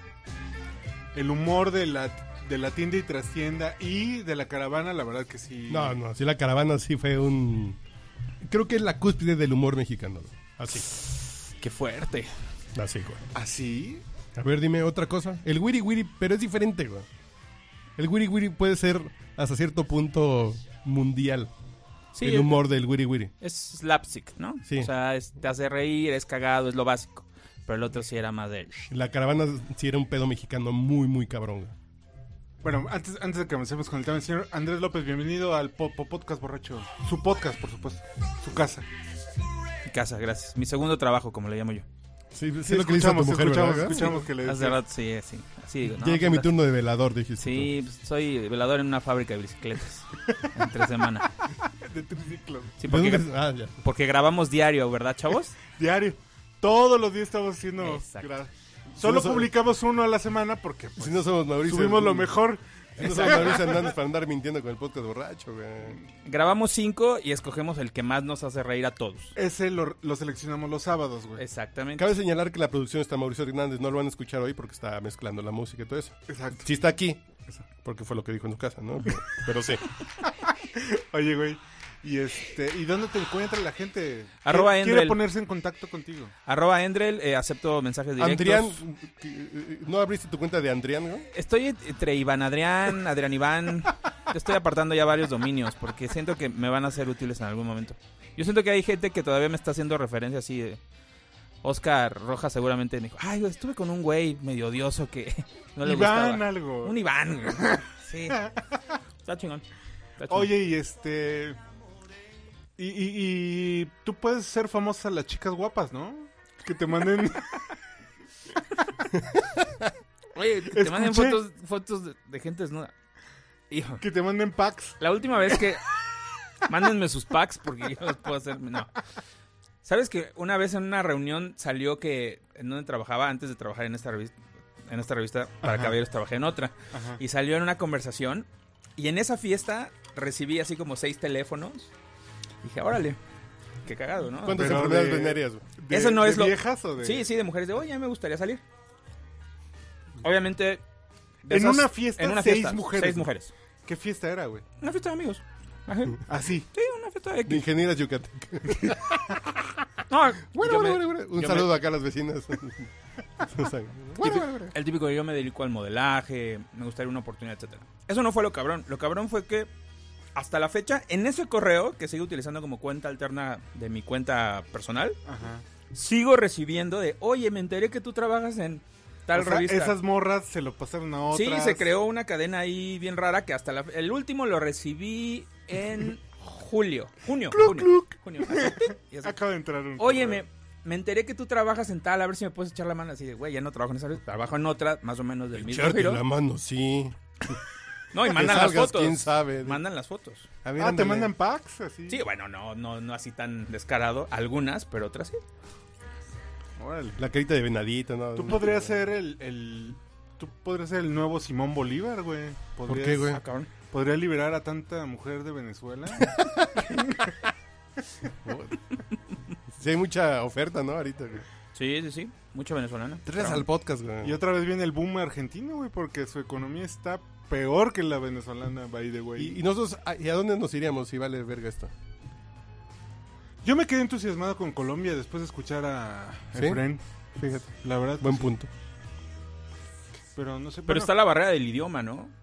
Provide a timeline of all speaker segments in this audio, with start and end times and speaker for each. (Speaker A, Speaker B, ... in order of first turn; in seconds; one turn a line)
Speaker A: 1.1-6.0
Speaker B: 5.7-7.8
Speaker B: 8.4-10.9
Speaker C: 11.5-12.3
Speaker B: 12.8-13.2
Speaker A: 13.3-14.0
Speaker B: 14.3-17.1
Speaker B: 18.0-21.5
Speaker C: 22.1-22.6
Speaker B: 22.2-23.3
Speaker C: 23.4-28.9
Speaker B: 28.9-31.8
Speaker A: 32.6-38.9
Speaker C: 39.9-41.9
Speaker B: 42.3-44.2
Speaker A: 42.6-44.8
Speaker C: 44.4-46.5
Speaker B: 46.0-47.7
Speaker C: 47.4-51.3
Speaker A: 51.7-52.8
Speaker C: 52.8-53.3
Speaker B: 52.9-53.8
Speaker C: 53.8-55.6
Speaker A: 55.7-63.9
Speaker C: 57.8-58.3
Speaker B: 58.9-59.5
Speaker B: 61.0-62.4
Speaker B: 63.0-66.0
Speaker C: 66.2-69.4
Speaker A: 69.4-71.4
Speaker C: 71.4-72.1
Speaker B: 72.0-77.2
Speaker A: 76.3-76.6
Speaker B: 77.8-79.8
Speaker A: 80.2-86.3
Speaker C: 84.4-85.2
Speaker C: 86.5-88.8
Speaker B: 88.2-91.3
Speaker C: 91.3-100.8
Speaker C: 101.6-108.4
Speaker A: 105.8-108.8
Speaker C: 109.2-109.6
Speaker C: 110.2-110.5
Speaker A: 110.3-111.6
Speaker A: 112.8-117.7
Speaker C: 120.3-122.9
Speaker A: 120.7-121.4
Speaker C: 123.7-124.0
Speaker A: 124.0-125.0
Speaker C: 125.0-125.9
Speaker C: 126.6-128.9
Speaker C: 129.8-134.3
Speaker C: 134.9-141.9
Speaker A: 136.9-137.2
Speaker C: 142.6-143.2
Speaker C: 143.8-144.8
Speaker B: 144.4-145.7
Speaker A: 144.5-147.3
Speaker C: 145.9-148.6
Speaker C: 150.2-150.8
Speaker C: 151.4-153.5
Speaker A: 151.5-153.3
Speaker A: 153.8-154.7
Speaker C: 154.8-157.7
Speaker A: 156.3-156.7
Speaker B: 157.5-159.8
Speaker C: 160.1-161.7
Speaker B: 160.4-162.9
Speaker B: 163.4-164.7
Speaker C: 164.2-169.7
Speaker C: 170.3-175.2
Speaker A: 175.3-175.6
Speaker C: 175.9-180.0
Speaker A: 179.3-181.9
Speaker C: 181.3-189.4
Speaker A: 187.5-190.4
Speaker C: 190.0-196.2
Speaker B: 195.6-197.6
Speaker C: 198.1-200.5
Speaker B: 198.2-199.8
Speaker B: 200.6-201.3
Speaker A: 200.8-202.2
Speaker C: 202.1-205.4
Speaker A: 206.8-207.2
Speaker B: 207.2-209.0
Speaker A: 208.3-217.3
Speaker B: 212.9-213.4
Speaker C: 213.3-213.7
Speaker B: 218.4-218.8
Speaker B: 219.7-221.5
Speaker C: 221.8-223.7
Speaker B: 223.3-224.4
Speaker A: 224.2-229.6
Speaker B: 229.4-231.9
Speaker A: 233.6-237.0
Speaker B: 236.5-236.8
Speaker B: 237.4-238.7
Speaker A: 237.8-238.5
Speaker A: 240.3-241.2
Speaker C: 240.9-242.3